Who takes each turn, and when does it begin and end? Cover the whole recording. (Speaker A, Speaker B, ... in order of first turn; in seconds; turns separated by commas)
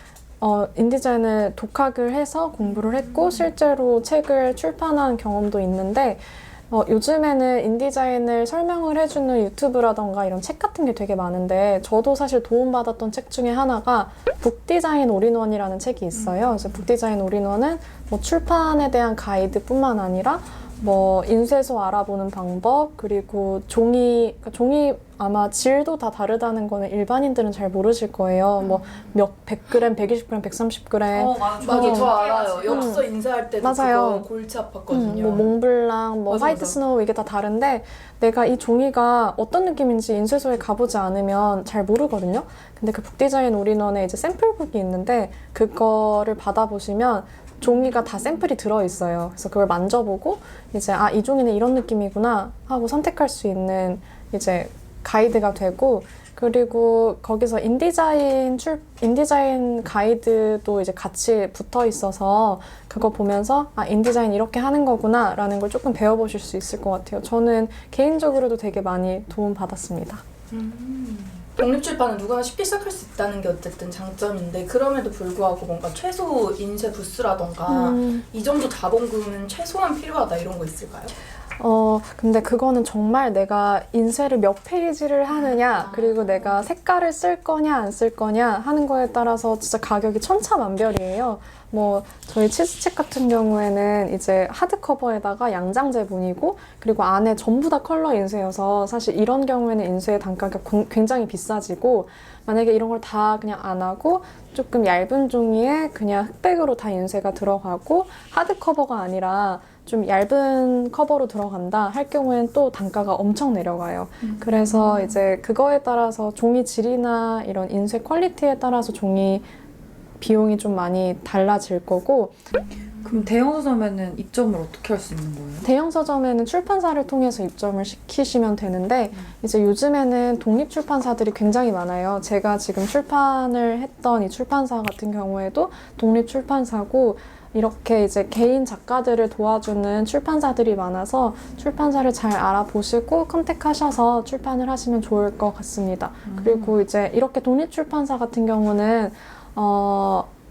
Speaker A: 0.4-33.0, Speaker B: 16.2-16.7, Speaker C: 31.1-32.9, Speaker B: 31.6-35.5, Speaker A: 33.6-34.3, Speaker A: 34.9-70.2, Speaker B: 36.3-36.8, Speaker B: 70.5-81.1, Speaker A: 77.7-78.2, Speaker A: 81.6-119.5, Speaker B: 85.5-86.6, Speaker B: 114.3-115.0, Speaker A: 120.2-122.4, Speaker C: 123.0-125.7, Speaker A: 125.6-150.3, Speaker C: 146.3-146.8